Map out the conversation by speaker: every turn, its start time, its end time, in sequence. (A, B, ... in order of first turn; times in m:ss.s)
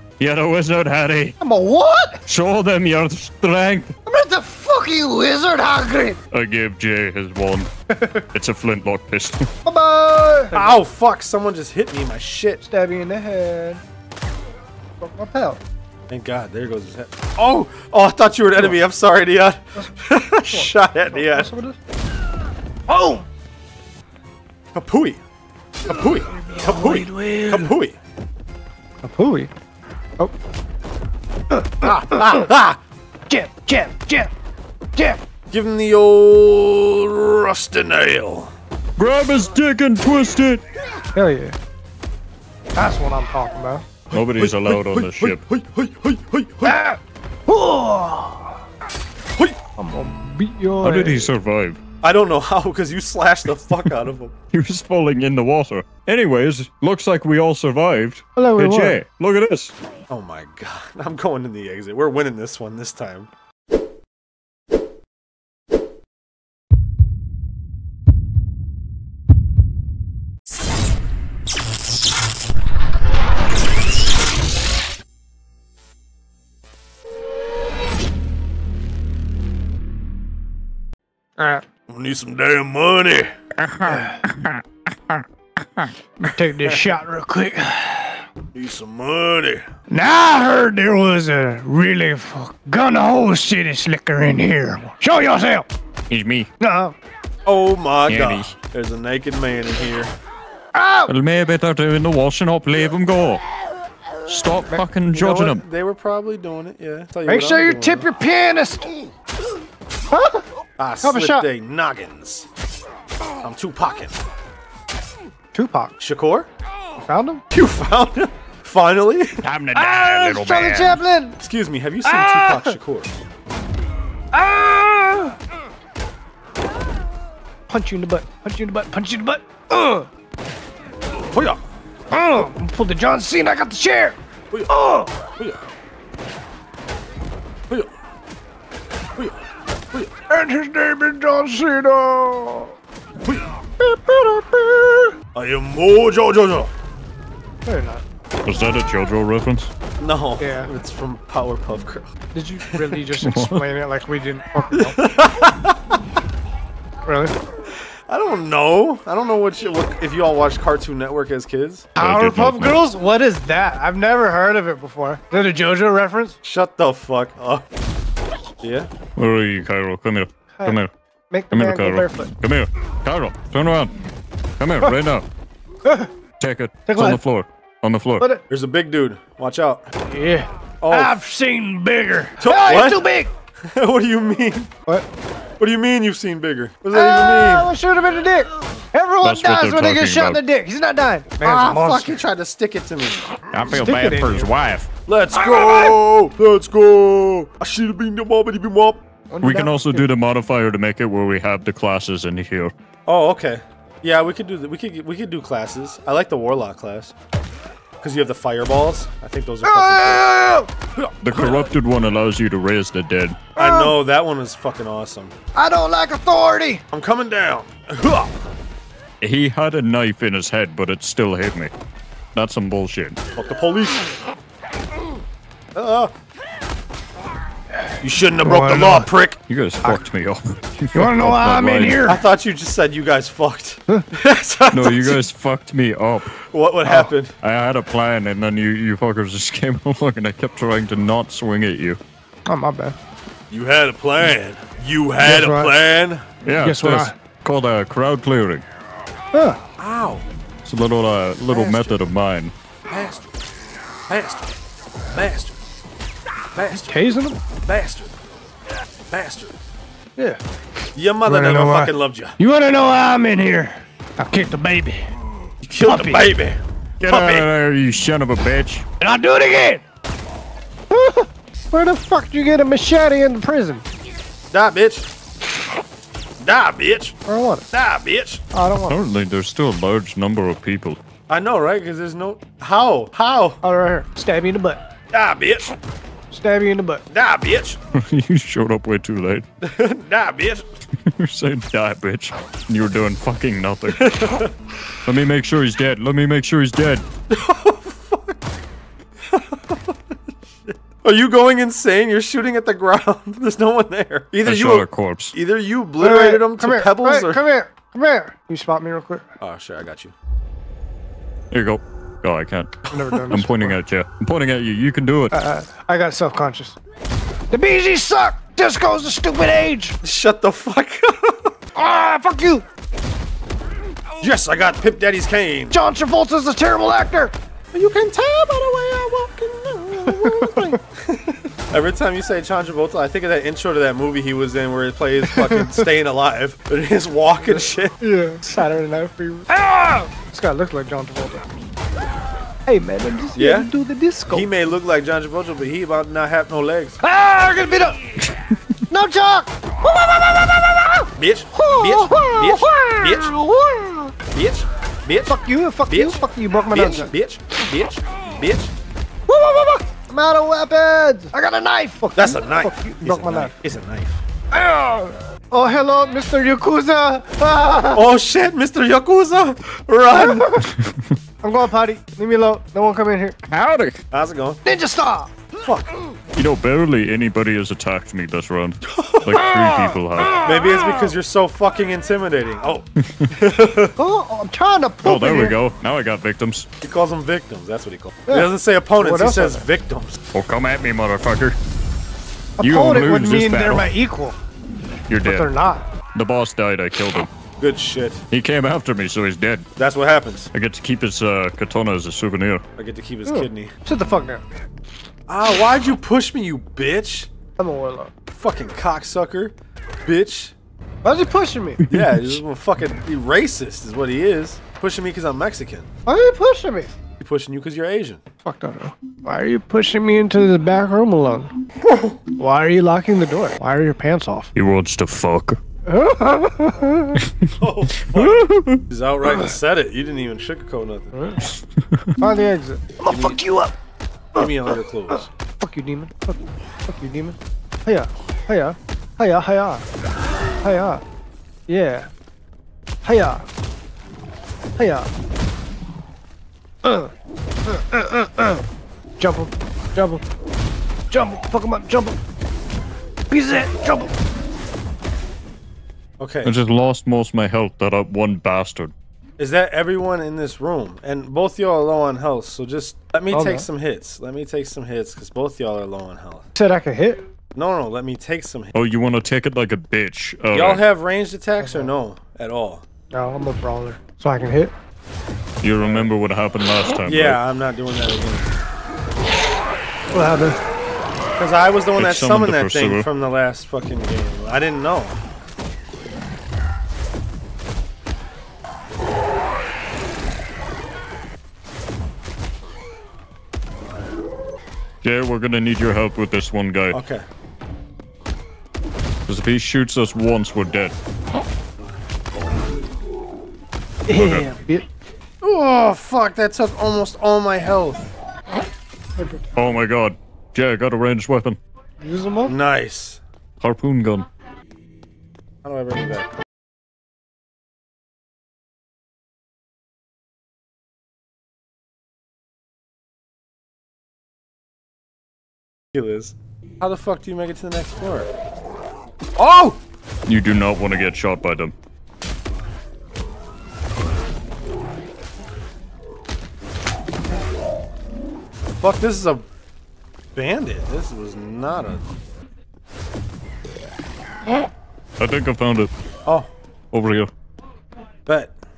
0:00.2-0:01.4 A
0:01.4-0:02.2 B
0:02.2-0:03.9 A
0:04.0-0:06.2 B
0:06.3-0:07.7 A
0:07.9-0:08.2 B
0:08.3-0:09.5 A
0:09.6-0:10.8 B
0:10.5-0:12.6 C
0:12.6-0:13.8 B
0:15.0-0:15.6 B
0:16.1-0:21.5 C
0:20.4-0:21.8 B
0:22.9-0:23.2 B
0:24.7-0:25.2 C
0:25.9-0:28.0 C
0:25.9-0:27.7 B
0:29.0-0:29.5 B
0:31.5-0:32.4 B
0:31.8-0:32.8 C
0:33.3-0:34.3 B
0:34.9-0:35.2 B
0:35.5-0:38.5 C
0:39.0-0:40.6 A
0:41.1-0:41.6 B
0:42.7-0:43.8 B
0:44.1-0:45.4 A
0:44.1-0:46.8 C
0:46.6-0:48.6 B
0:49.8-0:51.3 B
0:50.8-0:51.8 A
0:52.0-0:54.3 C
0:54.5-0:59.7 A
0:58.4-0:59.0 B
1:00.1-1:03.3 C
1:21.4-1:21.6 B
1:21.9-1:23.3 C
1:23.6-1:25.2 A
1:23.8-1:24.2 B
1:26.2-1:28.2 B
1:26.6-1:26.9 C
1:28.5-1:29.7 C
1:29.9-1:35.7 B
1:36.1-1:36.5 A
1:36.6-1:37.0 B
1:37.4-1:40.1 C
1:38.1-1:38.5 A
1:40.7-1:41.1 B
1:41.1-1:43.4 A
1:44.2-1:45.6 A
1:45.1-1:48.1 C
1:47.2-1:48.9 B
1:50.1-1:50.4 B
1:50.8-1:52.5 C
1:51.0-1:51.4 B
1:53.4-1:54.1 C
1:55.5-1:55.9 B
1:56.0-1:56.5 C
1:57.0-1:57.4 B
1:57.5-1:59.4 C
1:59.4-2:01.0 A
1:59.7-2:01.4 B
2:01.4-2:03.1 C
2:02.0-2:02.7 B
2:04.3-2:05.4 B
2:07.7-2:10.1 B
2:11.3-2:11.6 C
2:12.1-2:14.2 B
2:14.7-2:15.2 B
2:19.2-2:20.1 C
2:20.3-2:22.7 B
2:23.2-2:23.5 C
2:23.8-2:25.1 B
2:25.3-2:26.7 C
2:27.6-2:28.0 B
2:28.4-2:29.7 A
2:30.0-2:32.1 C
2:30.4-2:30.7 B
2:32.3-2:35.0 B
2:32.6-2:33.0 C
2:33.2-2:33.6 A
2:34.7-2:35.8 C
2:37.0-2:37.3 B
2:38.1-2:41.9 C
2:42.0-2:42.8 A
2:42.0-2:46.4 B
2:46.4-2:47.6 C
2:48.6-2:48.9 C
2:49.2-2:50.9 A
2:51.3-2:52.3 B
2:51.5-2:53.9 A
2:54.6-2:55.2 A
2:55.8-2:56.1 B
2:56.4-2:58.2 A
2:56.8-2:57.2 B
2:58.5-2:59.9 C
3:00.1-3:03.3 B
3:00.8-3:01.2 C
3:02.4-3:03.1 C
3:03.7-3:04.7 C
3:05.6-3:07.7 C
3:06.9-3:12.2 B
3:09.2-3:10.4 A
3:11.4-3:13.3 C
3:13.5-3:14.9 A
3:13.7-3:14.5 B
3:15.1-3:19.0 C
3:19.3-3:20.1 B
3:19.4-3:22.7 A
3:23.0-3:27.1 C
3:28.0-3:31.7 C
3:29.6-3:30.7 B
3:31.2-3:33.4 A
3:33.6-3:34.0 B
3:33.6-3:35.3 C
3:35.5-3:36.8 B
3:36.9-3:38.3 C
3:39.2-3:41.7 A
3:42.3-3:43.2 A
3:43.3-3:44.2 C
3:45.7-3:46.1 C
3:48.0-3:49.4 C
3:48.4-3:49.1 B
3:49.5-3:52.0 A
3:50.9-3:52.2 B
3:52.0-3:55.2 C
3:54.7-3:56.3 A
3:56.3-3:57.4 C
3:57.4-4:02.0 A
4:02.5-4:03.0 B
4:03.5-4:06.2 C
4:05.2-4:05.7 B
4:06.4-4:08.6 A
4:06.6-4:07.1 B
4:09.3-4:09.6 B
4:09.8-4:10.2 C
4:10.6-4:12.5 A
4:12.9-4:13.3 C
4:14.1-4:14.5 C
4:15.1-4:15.6 C
4:16.5-4:17.1 C
4:16.9-4:17.4 B
4:17.6-4:18.1 C
4:19.1-4:19.5 C
4:20.9-4:22.4 C
4:21.2-4:25.0 B
4:25.6-4:27.5 C
4:25.8-4:26.2 B
4:27.0-4:28.8 A
4:29.0-4:29.8 B
4:30.9-4:33.8 B
4:34.5-4:35.1 C
4:36.4-4:37.2 C
4:37.2-4:37.6 B
4:37.7-4:38.4 C
4:38.5-4:39.0 B
4:38.9-4:41.0 A
4:41.3-4:43.6 C
4:43.6-4:44.8 B
4:45.1-4:45.8 C
4:46.3-4:47.0 B
4:47.1-4:47.8 C
4:48.0-4:49.4 A
4:49.6-4:50.6 C
4:51.2-4:54.4 A
4:53.9-4:54.5 C
4:55.0-4:57.0 A
4:57.3-4:58.4 C
4:59.3-4:59.9 C
5:00.7-5:07.4 C
5:04.4-5:05.3 A
5:06.0-5:09.2 B
5:09.4-5:10.1 C
5:11.5-5:15.3 A
5:12.9-5:13.8 B
5:12.9-5:13.3 C
5:15.3-5:16.8 B
5:17.5-5:20.0 B
5:20.0-5:21.5 C
5:21.7-5:22.6 B
5:24.2-5:25.8 C
5:25.7-5:27.3 B
5:27.7-5:38.0 C
5:30.0-5:30.8 B
5:35.3-5:35.9 B
5:38.0-5:41.4 B
5:42.6-5:44.5 B
5:43.4-5:43.7 C
5:44.3-5:47.0 C
5:47.0-5:48.0 B
5:48.9-5:54.1 B
5:51.2-5:53.4 C
5:54.3-5:58.7 C
5:55.3-5:57.1 B
5:59.3-6:03.5 B
6:02.1-6:04.2 C
6:04.5-6:08.0 B
6:07.9-6:10.6 C
6:10.1-6:10.6 B
6:11.4-6:13.4 B
6:13.5-6:14.0 A
6:14.1-6:14.6 C
6:14.6-6:15.3 B
6:15.6-6:16.0 C
6:16.4-6:20.4 A
6:18.9-6:19.4 C
6:19.5-6:20.5 B
6:20.4-6:23.9 C
6:24.0-6:25.6 B
6:25.0-6:26.7 A
6:26.8-6:30.2 C
6:28.3-6:29.6 B
6:30.3-6:31.6 A
6:32.6-6:34.4 B
6:32.6-6:33.9 A
6:35.1-6:35.5 A
6:35.2-6:35.8 B
6:36.1-6:37.3 A
6:37.6-6:38.2 C
6:38.3-6:39.7 A
6:39.8-6:40.5 C
6:40.5-6:42.6 A
6:42.8-6:43.7 C
6:43.2-6:44.4 B
6:45.3-6:47.3 C
6:47.6-6:48.1 B
6:48.3-6:50.5 C
6:51.0-6:51.8 B
6:51.8-6:52.4 A
6:51.9-6:55.9 C
6:56.0-6:56.9 B
6:57.2-6:58.2 C
6:58.4-7:01.5 B
7:02.4-7:04.5 B
7:04.5-7:05.6 A
7:05.9-7:07.2 B
7:07.6-7:11.1 C
7:08.1-7:08.8 A
7:11.1-7:11.5 B
7:12.2-7:13.7 B
7:13.0-7:13.4 C
7:14.3-7:15.3 C
7:15.6-7:19.8 B
7:20.6-7:21.0 B
7:21.7-7:22.1 B
7:23.0-7:23.4 B
7:24.8-7:25.1 B
7:26.8-7:27.1 B
7:27.6-7:28.6 B
7:29.2-7:30.2 B
7:31.1-7:32.2 B
7:33.3-7:34.1 B
7:36.2-7:36.6 C
7:36.4-7:38.9 A
7:39.4-7:46.4 C
7:43.3-7:43.6 B
7:46.5-7:47.2 B
7:47.5-7:48.7 C
7:48.7-7:50.8 A
7:50.5-7:52.8 C
7:51.6-7:51.9 B
7:53.1-7:54.7 B
7:55.6-7:57.4 A
7:55.8-7:56.1 C
7:57.0-7:58.5 C
8:00.1-8:00.6 B
8:01.4-8:05.2 C
8:02.0-8:03.1 A
8:15.0-8:17.0 A
8:16.9-8:17.2 C
8:19.3-8:20.9 A
8:24.1-8:24.8 B
8:24.1-8:24.5 A
8:25.4-8:28.1 C
8:29.6-8:31.6 A
8:32.0-8:32.5 B
8:32.4-8:33.2 C
8:33.6-8:34.3 A
8:35.6-8:36.4 C
8:45.9-8:48.3 C
8:49.4-8:49.8 C
8:50.3-8:51.7 A
8:58.8-8:59.4 C
9:00.3-9:02.1 C
9:05.2-9:05.9 A
9:06.9-9:07.3 A
9:08.3-9:08.5 C